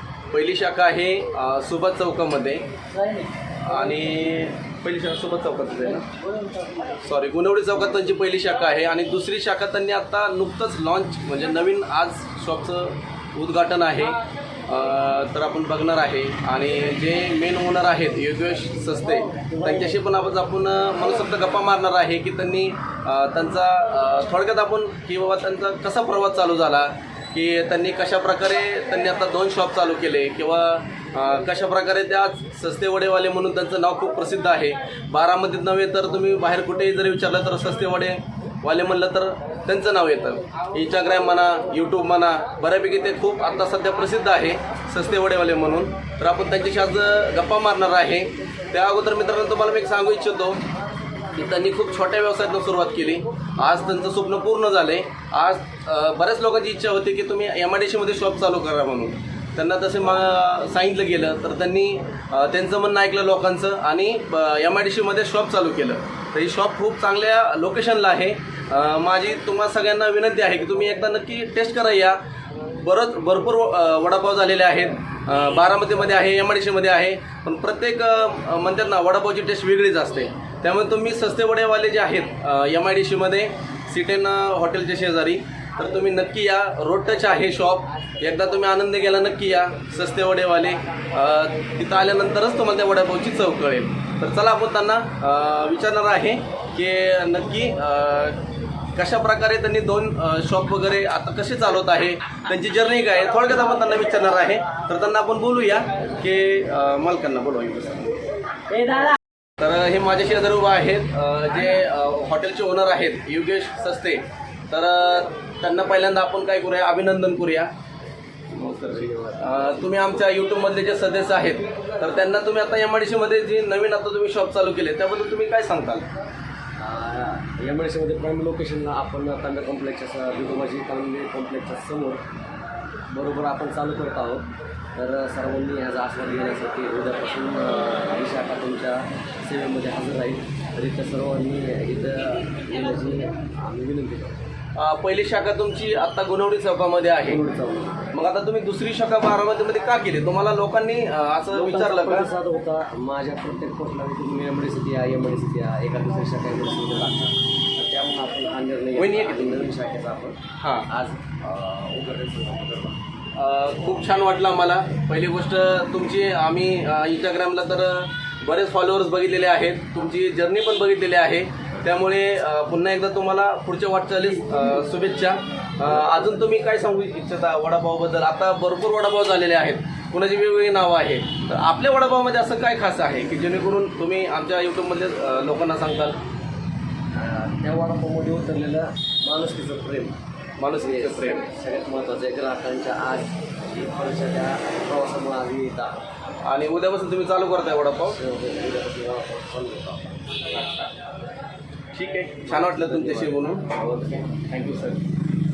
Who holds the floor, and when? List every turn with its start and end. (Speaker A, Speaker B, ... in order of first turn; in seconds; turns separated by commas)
Speaker A: 0.3-6.1, Speaker A: 7.0-50.6, Speaker A: 51.3-72.2, Speaker A: 72.7-98.4, Speaker A: 99.0-108.2, Speaker A: 108.7-109.1, Speaker A: 109.6-117.7, Speaker A: 118.5-126.1, Speaker B: 118.7-119.9, Speaker B: 126.8-132.2, Speaker B: 133.1-144.4, Speaker A: 144.8-147.4, Speaker B: 147.2-148.0, Speaker A: 148.1-152.3, Speaker B: 151.5-163.0, Speaker A: 159.0-159.7, Speaker A: 160.6-160.9, Speaker A: 163.3-186.2, Speaker B: 187.2-190.1, Speaker A: 190.6-191.5, Speaker B: 190.7-196.0, Speaker A: 196.4-198.2, Speaker B: 198.1-200.8, Speaker A: 201.9-203.7, Speaker B: 202.5-204.3, Speaker A: 204.4-205.0